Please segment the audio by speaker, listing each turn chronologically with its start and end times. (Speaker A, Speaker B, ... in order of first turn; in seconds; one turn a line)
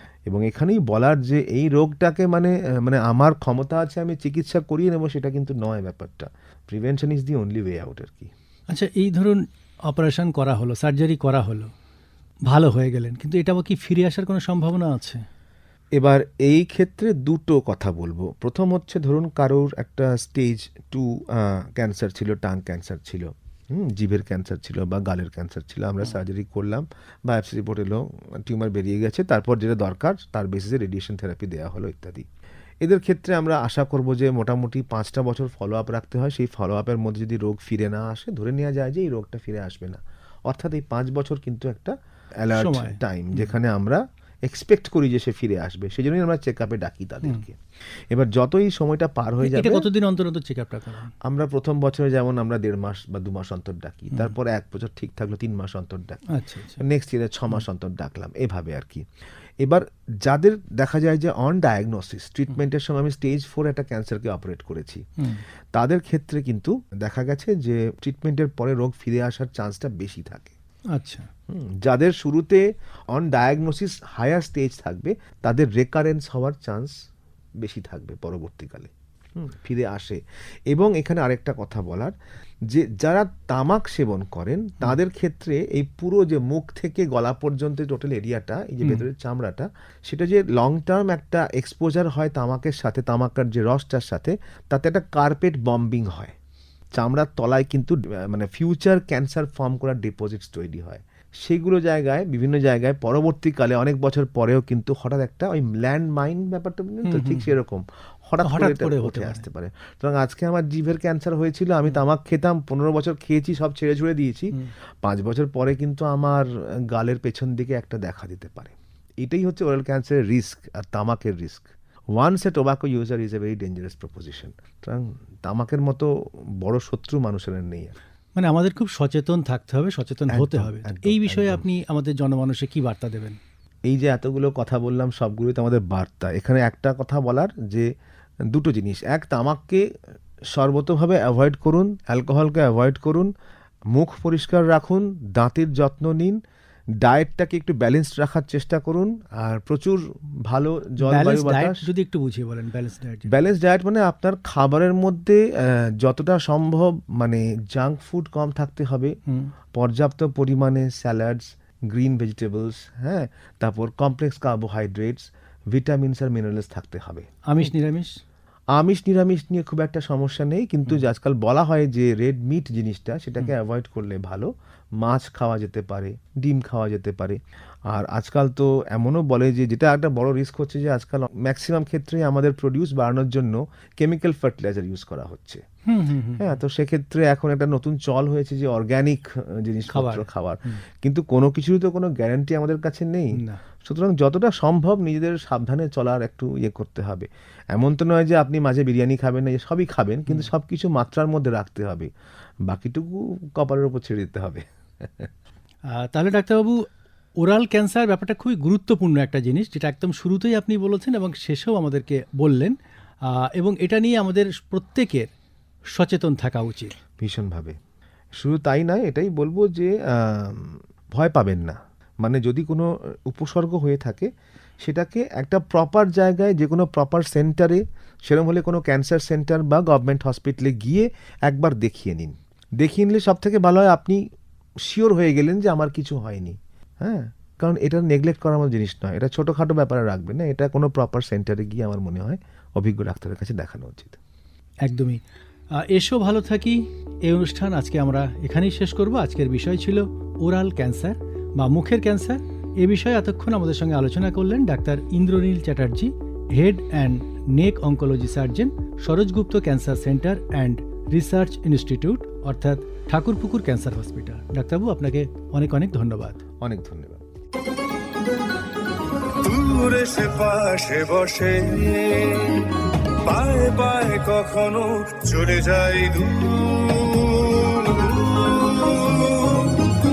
Speaker A: 0.3-8.3
Speaker B: 8.7-11.7
Speaker B: 12.5-15.2
Speaker A: 15.9-32.3
Speaker A: 32.8-47.6
Speaker B: 42.5-43.5
Speaker A: 48.1-49.9
Speaker B: 49.4-51.1
Speaker A: 51.2-56.2
Speaker B: 56.3-56.8
Speaker A: 56.8-59.0
Speaker A: 59.6-65.0
Speaker B: 65.2-65.4
Speaker A: 65.7-70.5
Speaker B: 71.0-71.3
Speaker A: 71.5-77.0
Speaker A: 77.6-82.1
Speaker A: 82.7-96.3
Speaker A: 96.9-128.0
Speaker B: 107.0-107.5
Speaker B: 108.4-109.4
Speaker B: 128.4-133.4
Speaker A: 130.3-131.6
Speaker A: 133.9-137.9
Speaker A: 138.5-139.9
Speaker A: 140.5-143.3
Speaker A: 143.9-146.4
Speaker A: 147.0-151.8
Speaker B: 151.0-153.3
Speaker A: 153.3-159.2
Speaker A: 159.7-167.3
Speaker B: 167.5-168.2
Speaker A: 168.7-185.6
Speaker B: 185.9-186.5
Speaker A: 186.4-202.1
Speaker B: 189.9-190.8
Speaker B: 193.3-193.6
Speaker A: 202.7-205.3
Speaker B: 205.9-206.8
Speaker B: 207.4-212.8
Speaker B: 213.3-215.3
Speaker B: 215.9-216.9
Speaker A: 217.2-217.8
Speaker A: 218.4-234.2
Speaker A: 234.8-244.2
Speaker B: 244.8-245.2
Speaker B: 245.8-266.4
Speaker A: 266.6-267.2
Speaker C: 269.4-272.7
Speaker C: 273.2-279.8